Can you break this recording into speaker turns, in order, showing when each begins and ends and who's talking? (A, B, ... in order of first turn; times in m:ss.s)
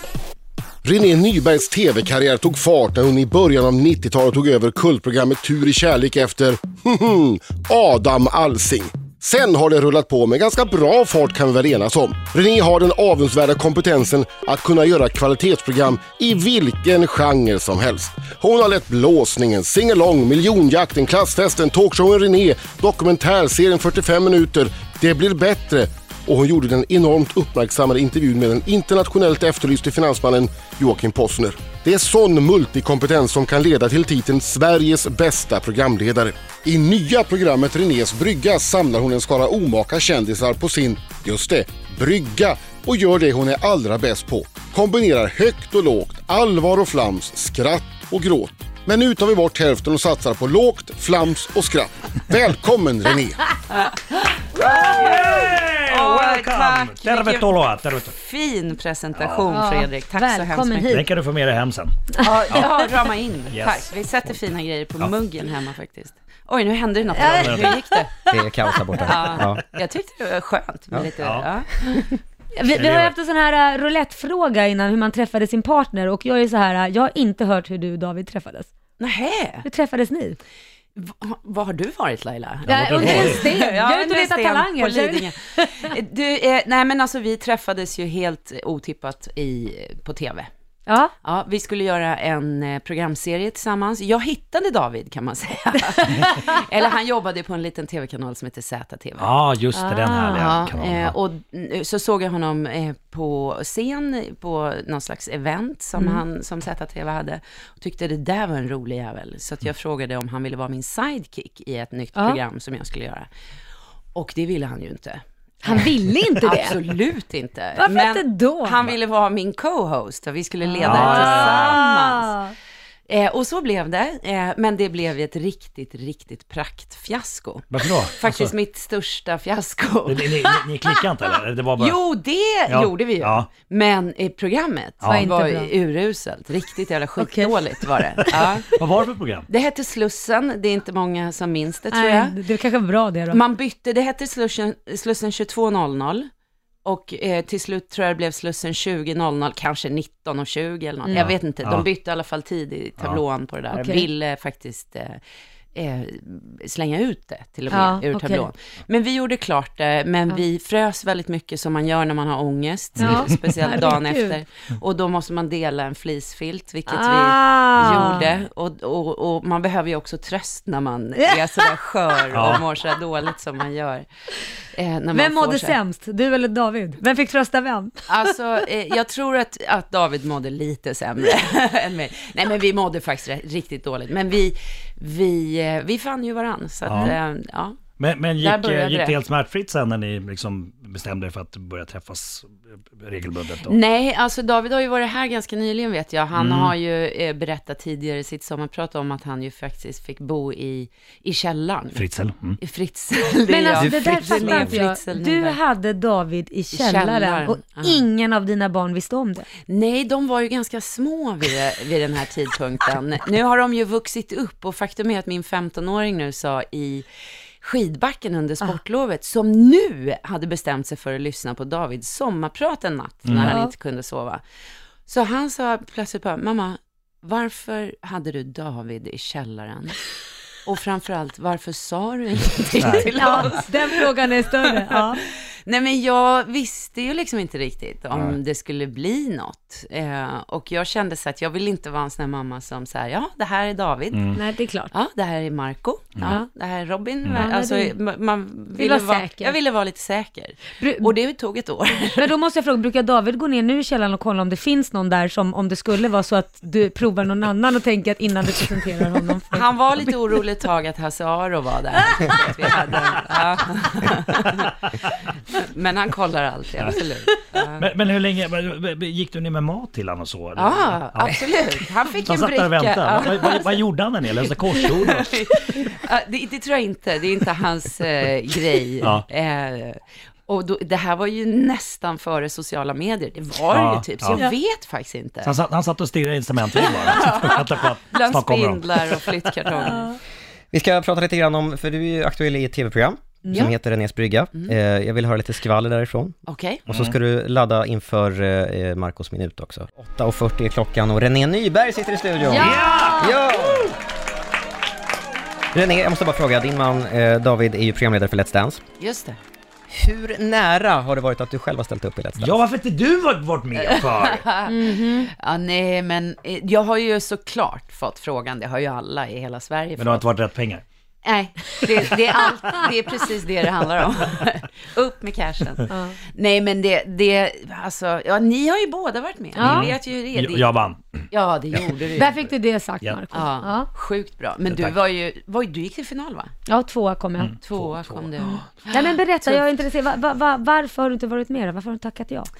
0:00.8-0:53.5 A
0:53.7-1:01.0 B
0:54.6-0:58.1 C
0:59.2-0:59.5 C
0:59.5-1:01.1 D
1:00.9-1:02.0 C
1:02.2-1:08.1 B
1:02.5-1:02.8 C
1:03.5-1:03.9 C
1:07.2-1:09.4 D
1:07.2-1:07.8 C
1:08.3-1:09.6 E
1:09.0-1:12.1 B
1:11.2-1:11.5 C
1:12.5-1:18.7 D
1:12.7-1:13.1 C
1:19.0-1:19.6 B
1:19.6-1:20.4 D
1:21.0-1:30.5 B
1:22.7-1:23.5 C
1:22.7-1:25.9 D
1:30.9-1:31.1 D
1:31.2-1:39.3 B
1:36.0-1:36.5 D
1:39.2-1:41.1 C
1:39.7-1:40.5 D
1:40.3-1:53.3 B
1:46.0-1:46.2 D
1:54.2-2:02.4 B
1:55.6-1:56.8 D
1:57.8-1:58.8 D
2:00.6-2:02.5 D
2:00.8-2:01.8 C
2:03.1-2:11.0 B
2:07.7-2:08.5 C
2:10.1-2:12.0 C
2:11.8-2:18.8 B
2:12.7-2:13.5 C
2:15.0-2:15.3 C
2:15.0-2:15.7 D
2:17.2-2:18.3 D
2:18.8-2:19.5 C
2:19.5-2:22.4 B
2:21.9-2:23.4 D
2:23.3-2:26.3 B
2:26.8-2:35.2 B
2:31.0-2:31.3 D
2:31.1-2:31.9 C
2:33.7-2:34.1 D
2:35.8-2:54.1 B
2:37.7-2:38.5 D
2:43.0-2:43.5 C
2:43.0-2:44.4 D
2:46.9-2:48.3 D
2:51.3-2:51.7 D
2:52.3-2:52.7 C
2:54.7-2:55.8 B
2:55.1-2:58.1 D
2:58.1-3:07.8 B
3:06.9-3:07.2 C
3:08.0-3:13.8 C
3:08.4-3:09.2 B
3:13.6-3:22.1 B
3:16.3-3:16.7 C
3:21.9-3:22.6 C
3:22.6-3:25.6 B
3:23.5-3:29.5 D
3:23.8-3:24.4 E
3:26.7-3:28.0 B
3:29.7-3:37.1 B
3:37.6-3:44.4 B
3:43.2-3:43.6 C
3:43.4-3:43.7 D
3:45.1-3:50.0 B
3:50.6-3:54.1 B
3:52.8-3:53.5 C
3:53.0-3:55.2 D
3:55.7-4:04.4 B
4:04.1-4:04.4 C
4:04.3-4:04.9 D
4:04.9-4:12.3 B
4:07.2-4:07.5 C
4:07.3-4:08.0 D
4:08.8-4:09.6 D
4:10.8-4:11.1 D
4:12.2-4:19.7 D
4:19.5-4:24.8 B
4:25.6-4:27.9 B
4:27.8-4:35.3 C
4:30.6-4:33.8 B
4:34.7-4:45.5 B
4:39.0-4:39.2 C
4:43.7-4:44.5 C
4:45.4-4:49.6 C
4:46.7-4:50.2 B
4:49.9-4:50.1 D
4:50.7-5:03.9 E
4:56.5-4:56.8 B
4:56.9-4:57.2 C
5:02.4-5:03.5 D
5:02.4-5:03.3 C
5:05.7-5:08.8 E
5:09.0-5:09.4 B
5:09.9-5:12.6 E
5:12.4-5:14.4 C
5:13.7-5:20.2 B
5:14.7-5:15.3 D
5:20.0-5:20.8 C
5:21.2-5:32.5 B
5:25.9-5:26.2 D
5:29.6-5:29.9 D
5:29.6-5:31.8 C
5:32.2-5:33.9 D
5:33.3-5:36.5 B
5:34.7-5:35.0 C
5:36.7-5:37.5 D
5:37.4-5:38.3 C
5:37.6-5:39.6 B
5:38.9-5:42.5 D